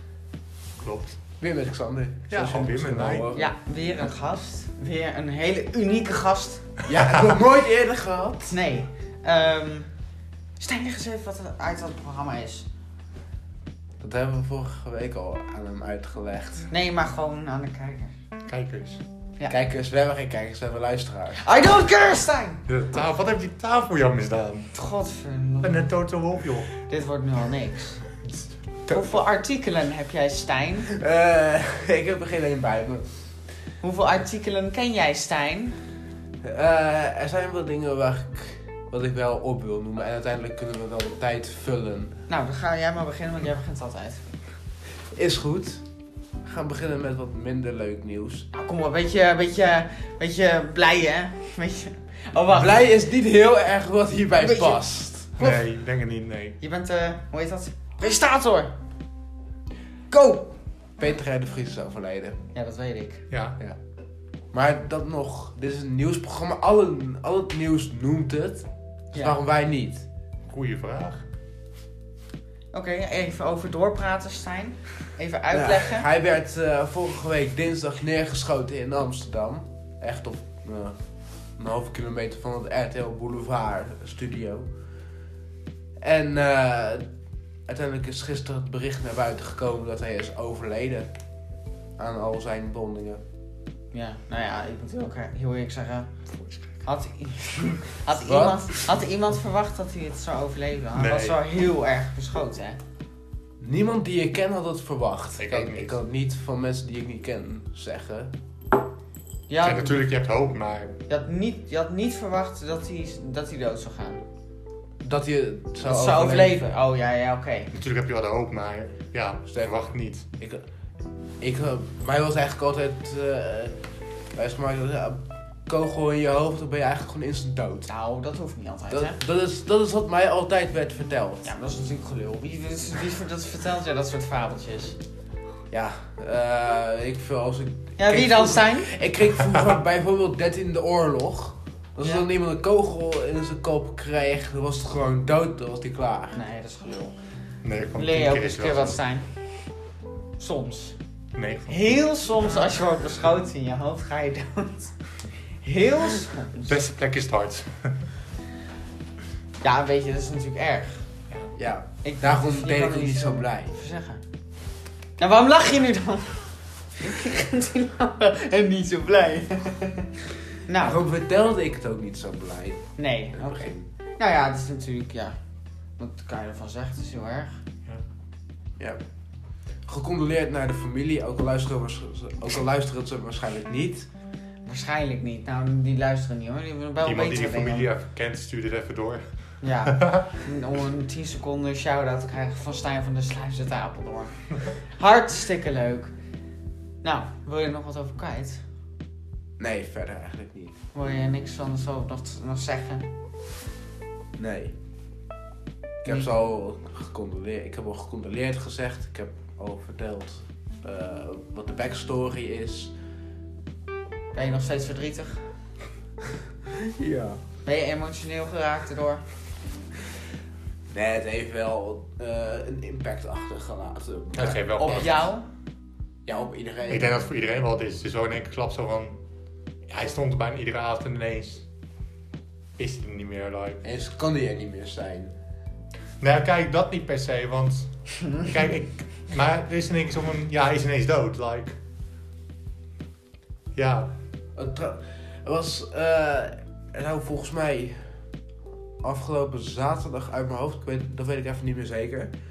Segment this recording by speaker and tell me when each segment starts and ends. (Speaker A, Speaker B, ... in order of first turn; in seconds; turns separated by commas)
Speaker A: 0.8-1.2, Speaker B: 1.4-3.5, Speaker A: 2.3-3.3, Speaker C: 3.3-6.7, Speaker B: 6.8-8.6, Speaker C: 8.5-9.9, Speaker C: 10.6-12.7, Speaker B: 14.0-16.7, Speaker C: 16.7-18.1, Speaker A: 18.5-19.0, Speaker B: 19.5-21.4, Speaker C: 21.4-22.6, Speaker A: 22.7-24.7, Speaker C: 24.7-25.9, Speaker A: 25.6-26.7, Speaker C: 26.9-28.0, Speaker C: 28.9-30.9, Speaker B: 30.9-33.2, Speaker C: 33.8-35.8, Speaker B: 36.4-42.2, Speaker C: 42.3-44.2, Speaker B: 45.1-45.8, Speaker B: 46.4-48.5, Speaker C: 48.5-52.9, Speaker B: 52.5-55.3, Speaker C: 54.4-54.8, Speaker A: 55.4-56.6, Speaker C: 56.6-58.7, Speaker C: 60.1-60.5, Speaker B: 61.0-62.4, Speaker C: 62.5-63.2, Speaker A: 63.3-63.6, Speaker B: 64.5-70.0, Speaker A: 70.5-71.2, Speaker C: 72.7-76.1, Speaker B: 75.5-81.0, Speaker B: 81.6-84.7, Speaker B: 86.0-87.1, Speaker B: 87.7-91.1, Speaker B: 92.0-93.2, Speaker C: 93.9-96.1, Speaker C: 96.8-102.8, Speaker B: 98.2-98.6, Speaker A: 101.0-101.4, Speaker B: 103.6-108.3, Speaker A: 105.4-106.0, Speaker C: 109.5-110.0, Speaker A: 109.6-111.0, Speaker C: 111.1-114.2, Speaker B: 115.0-116.7, Speaker C: 115.8-117.7, Speaker A: 117.7-120.3, Speaker B: 120.4-120.6, Speaker B: 121.4-123.8, Speaker B: 124.3-127.9, Speaker C: 127.9-129.2, Speaker B: 128.9-131.5, Speaker C: 131.4-135.0, Speaker B: 135.7-146.3, Speaker C: 138.0-138.9, Speaker C: 146.3-147.1, Speaker A: 147.6-149.0, Speaker C: 147.9-149.3, Speaker C: 150.4-150.9, Speaker A: 151.3-152.0, Speaker C: 151.7-154.9, Speaker C: 155.6-156.7, Speaker A: 156.6-157.9, Speaker C: 159.6-161.0, Speaker B: 161.5-163.8, Speaker C: 162.0-164.2, Speaker C: 165.2-170.1, Speaker C: 170.7-171.0, Speaker B: 170.8-173.8, Speaker C: 173.0-175.3, Speaker C: 176.0-177.6, Speaker B: 179.8-184.1, Speaker C: 184.6-187.9, Speaker A: 187.0-190.3, Speaker C: 189.6-196.1, Speaker C: 197.0-198.6, Speaker B: 199.6-200.7, Speaker C: 200.9-203.1, Speaker B: 204.4-204.8, Speaker B: 206.0-212.9, Speaker C: 206.1-206.3, Speaker C: 214.3-215.4, Speaker B: 216.7-217.4, Speaker C: 217.7-219.2, Speaker B: 220.9-225.3, Speaker A: 224.3-225.3, Speaker C: 224.8-225.4, Speaker B: 226.2-227.2, Speaker A: 226.9-229.2, Speaker A: 229.9-231.6, Speaker A: 232.8-233.8, Speaker B: 233.8-235.3, Speaker A: 236.2-241.8, Speaker A: 243.8-244.1, Speaker B: 244.6-248.1, Speaker B: 249.0-252.3